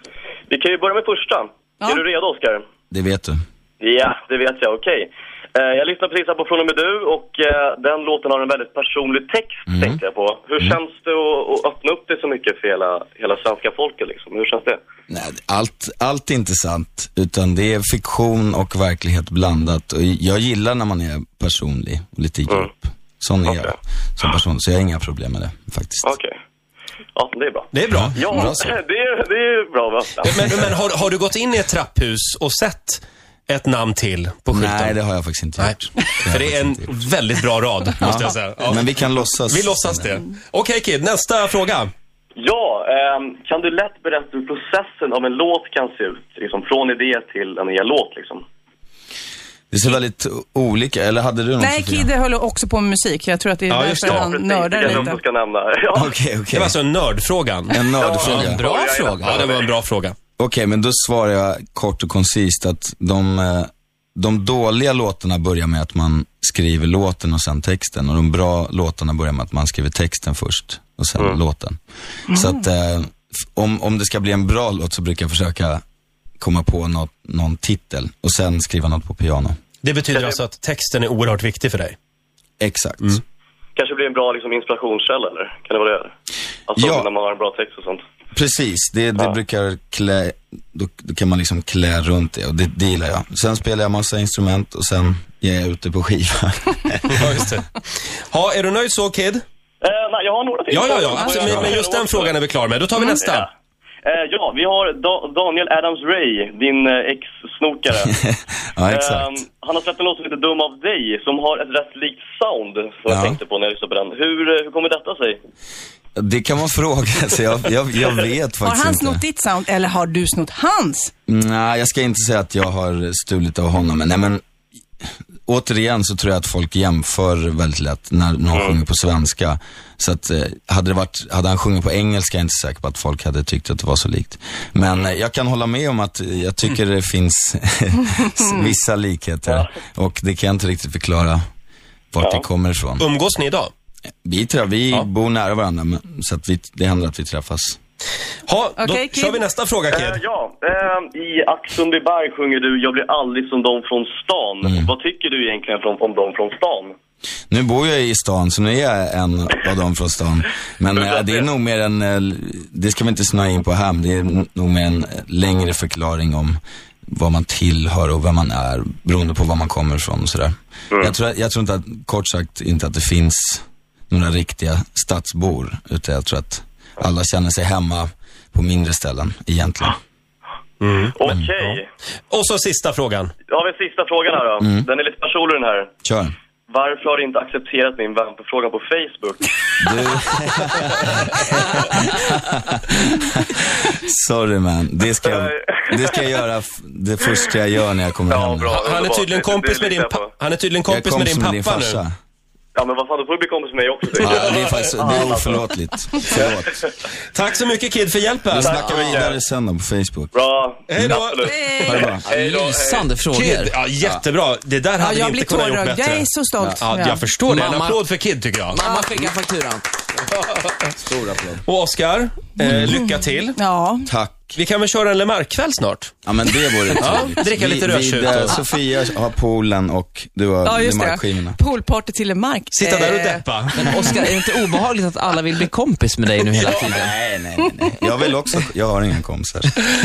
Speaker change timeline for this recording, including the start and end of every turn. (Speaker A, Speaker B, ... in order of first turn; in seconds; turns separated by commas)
Speaker A: 0.5-2.6, Speaker B: 2.9-3.4, Speaker A: 3.8-14.8, Speaker B: 9.7-10.0, Speaker B: 15.1-26.1, Speaker A: 23.4-23.7, Speaker A: 26.0-26.3, Speaker A: 27.1-30.5, Speaker C: 27.7-28.7, Speaker B: 27.9-28.7, Speaker C: 30.2-35.0, Speaker B: 34.5-36.9, Speaker C: 35.6-41.9, Speaker B: 38.0-40.1, Speaker A: 42.4-48.4, Speaker B: 49.7-52.1, Speaker D: 51.6-55.2, Speaker C: 53.7-54.3, Speaker A: 53.9-56.1, Speaker C: 54.8-55.1, Speaker B: 55.9-56.8, Speaker C: 56.5-58.5, Speaker B: 57.7-58.6, Speaker A: 57.9-59.7, Speaker E: 58.3-59.4, Speaker C: 59.2-60.1, Speaker B: 60.4-75.8, Speaker B: 76.4-79.5, Speaker C: 79.8-82.0, Speaker A: 80.1-80.4, Speaker B: 82.6-83.2, Speaker A: 83.8-86.1, Speaker A: 86.7-88.0, Speaker B: 86.8-87.1, Speaker B: 88.3-97.3, Speaker C: 97.1-99.4, Speaker A: 99.8-102.4, Speaker C: 100.7-103.5, Speaker B: 101.4-101.7, Speaker A: 103.0-103.5, Speaker A: 104.0-108.1, Speaker B: 108.2-109.4, Speaker A: 108.9-115.4, Speaker B: 113.1-113.4, Speaker B: 116.2-119.2, Speaker D: 118.6-121.1, Speaker B: 121.3-124.4, Speaker B: 125.5-141.4, Speaker A: 128.5-128.8, Speaker B: 142.1-143.1, Speaker A: 142.2-142.4, Speaker C: 143.0-143.7, Speaker B: 144.2-147.8, Speaker C: 148.5-150.2, Speaker D: 148.8-149.4, Speaker A: 149.9-156.9, Speaker B: 157.5-180.0, Speaker A: 161.0-161.4, Speaker C: 180.8-181.8, Speaker A: 181.0-181.9, Speaker C: 182.3-183.3, Speaker A: 183.5-185.9, Speaker B: 184.6-184.9, Speaker B: 186.0-186.3, Speaker A: 186.7-190.1, Speaker B: 189.8-198.7, Speaker A: 195.2-196.3, Speaker A: 198.3-200.3, Speaker C: 198.7-202.0, Speaker B: 200.9-202.1, Speaker A: 202.7-205.6, Speaker B: 204.2-206.8, Speaker C: 207.3-208.8, Speaker B: 208.6-210.3, Speaker A: 208.6-209.4, Speaker E: 208.7-209.2, Speaker A: 210.3-213.1, Speaker C: 210.9-212.1, Speaker D: 211.4-212.1, Speaker B: 211.8-212.2, Speaker E: 212.2-213.7, Speaker C: 213.3-216.3, Speaker D: 215.0-217.3, Speaker C: 216.8-218.8, Speaker E: 217.4-218.0, Speaker E: 218.7-219.9, Speaker B: 220.9-221.6, Speaker C: 221.7-223.6, Speaker B: 222.7-222.9, Speaker D: 222.7-223.0, Speaker D: 223.5-224.1, Speaker B: 224.1-224.6, Speaker C: 224.5-226.1, Speaker B: 226.2-231.6, Speaker C: 227.0-228.6, Speaker D: 230.6-234.3, Speaker C: 232.7-233.8, Speaker E: 233.8-237.2, Speaker B: 236.8-239.8